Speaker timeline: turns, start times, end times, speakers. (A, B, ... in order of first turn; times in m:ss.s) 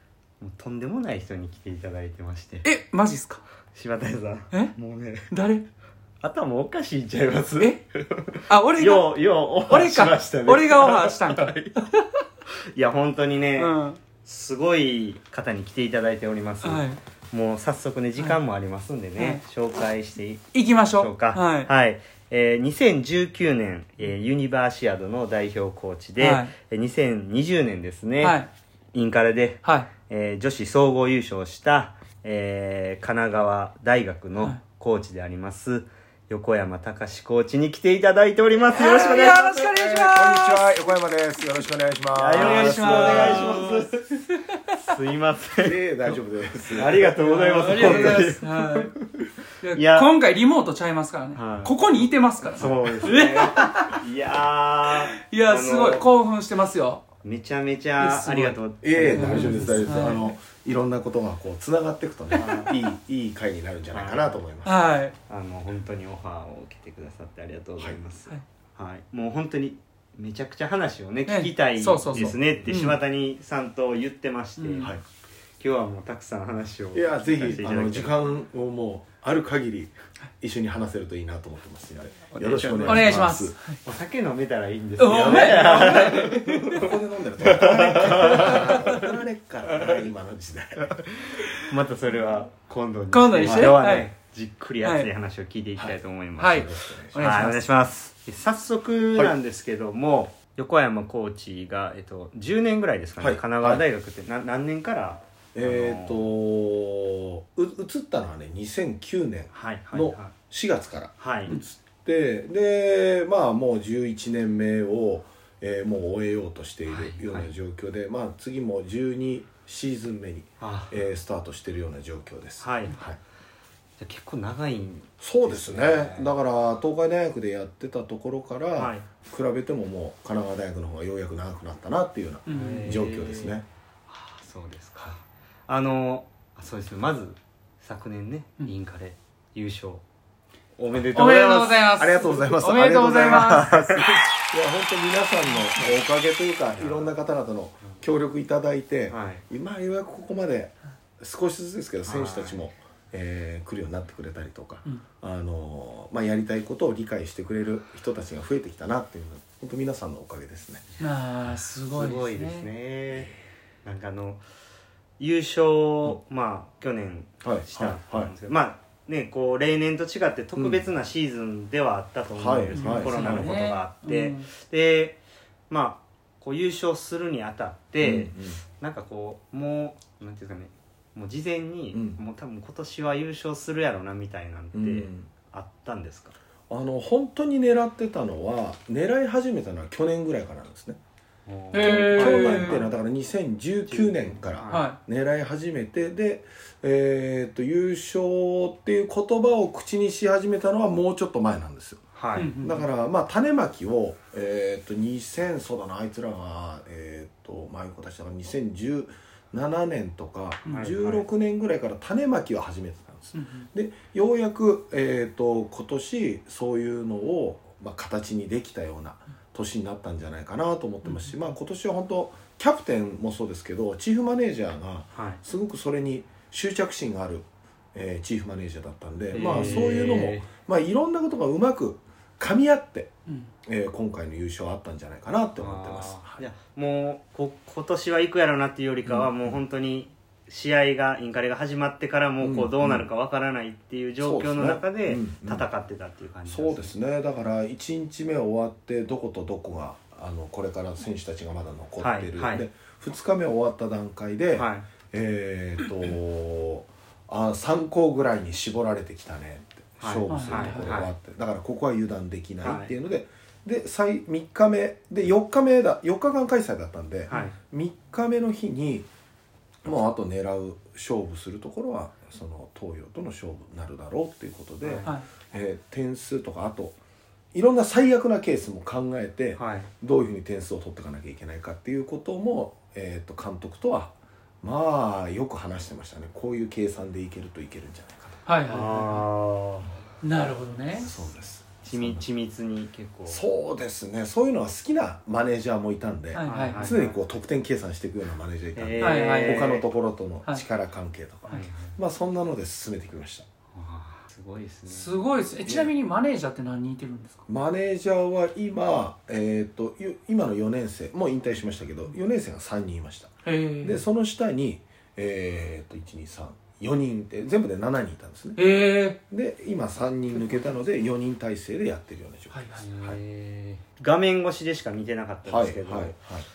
0:00.4-0:02.7 A
0:02.6-0:03.4 B
0:03.7-0:05.3 A
0:05.3-0:05.6 B
0:06.2-0:11.8 A
0:08.5-0:12.0 B
0:12.7-0:28.4 A
0:13.6-0:14.0 B
0:16.6-0:17.0 B
0:19.2-0:19.4 B
0:20.5-0:21.7 B
0:26.2-0:26.5 B
0:28.2-0:28.5 B
0:28.9-0:39.7 A
0:29.6-0:29.9 B
0:38.7-0:40.8 B
0:39.7-0:43.9 C
0:42.1-0:44.1 A
0:42.3-0:44.4 B
0:44.7-0:45.8 A
0:45.6-0:48.2 C
0:46.7-0:48.8 A
0:47.2-0:48.9 B
0:49.6-0:54.0 B
0:49.7-0:50.1 A
0:51.3-0:51.8 A
0:52.4-0:56.0 A
0:55.1-0:57.0 B
0:57.2-1:00.2 A
0:58.0-1:00.3 B
0:58.8-1:04.8 C
1:02.3-1:02.8 A
1:02.5-1:02.8 B
1:03.9-1:04.4 A
1:04.6-1:05.2 B
1:05.3-1:15.0 A
1:11.3-1:13.0 B
1:12.1-1:12.6 C
1:14.6-1:14.9 B
1:15.6-1:18.1 A
1:16.9-1:23.6 C
1:22.3-1:23.2 A
1:22.8-1:23.8 B
1:23.8-1:29.1 A
1:25.0-1:26.9 B
1:25.2-1:31.0 C
1:28.4-1:28.9 B
1:29.7-1:30.0 A
1:31.7-1:46.3 A
1:33.1-1:34.1 B
1:33.4-1:33.8 C
1:34.8-1:35.1 B
1:36.4-1:37.6 B
1:36.5-1:37.3 C
1:43.2-1:43.8 C
1:45.5-2:03.2 C
1:49.5-1:50.3 A
1:51.2-1:51.6 A
1:56.8-1:57.5 A
2:00.6-2:01.0 A
2:02.6-2:03.0 A
2:04.0-2:06.3 A
2:05.2-2:13.6 C
2:08.8-2:09.0 A
2:12.4-2:13.0 B
2:12.5-2:20.0 A
2:20.8-2:21.8 A
2:21.1-2:23.7 B
2:22.0-2:40.8 C
2:23.5-2:23.9 A
2:26.7-2:27.1 A
2:29.1-2:29.4 A
2:32.0-2:32.6 A
2:41.0-2:42.7 B
2:41.5-2:43.3 A
2:43.8-2:44.4 A
2:45.2-3:06.4 A
2:47.4-2:48.3 C
2:50.6-2:50.9 C
2:52.4-2:53.5 C
2:52.7-2:54.5 B
2:58.0-2:58.6 C
3:01.9-3:02.2 C
3:04.7-3:05.3 C
3:06.7-3:11.0 C
3:11.4-3:12.9 A
3:11.7-3:12.8 B
3:11.8-3:53.1 C
3:13.9-3:14.9 A
3:14.7-3:15.0 B
3:22.1-3:22.5 A
3:22.4-3:22.8 B
3:30.6-3:30.9 B
3:30.7-3:31.2 A
3:33.3-3:33.7 B
3:45.1-3:45.4 A
3:49.3-3:50.5 A
3:49.4-3:50.0 B
3:53.6-3:56.5 C
3:55.6-4:06.9 A
3:59.0-3:59.6 C
4:02.4-4:03.1 C
4:04.2-4:05.7 C
4:06.5-4:29.1 C
4:12.0-4:12.6 A
4:14.5-4:14.9 A
4:20.0-4:21.1 A
4:20.3-4:21.0 B
4:22.6-4:22.9 A
4:27.3-4:27.6 A
4:29.8-4:37.0 C
4:34.8-4:35.1 A
4:37.5-4:48.4 C
4:39.6-4:39.9 A
4:48.4-4:49.2 B
4:48.6-4:50.0 A
4:50.2-4:51.2 B
4:50.9-4:52.3 C
4:51.9-4:53.4 A
4:53.2-5:03.4 C
4:56.3-4:57.0 B
4:56.4-4:57.2 A
4:58.7-4:59.8 A
4:59.0-4:59.8 B
5:01.5-5:02.0 A
5:03.7-5:05.2 A
5:04.9-5:07.4 B
5:05.6-5:05.9 C
5:07.5-5:18.6 C
5:13.4-5:14.0 B
5:18.6-5:19.2 B
5:19.3-5:23.2 C
5:20.3-5:20.6 B
5:22.5-5:22.9 B
5:22.8-5:26.2 A
5:25.4-5:26.5 C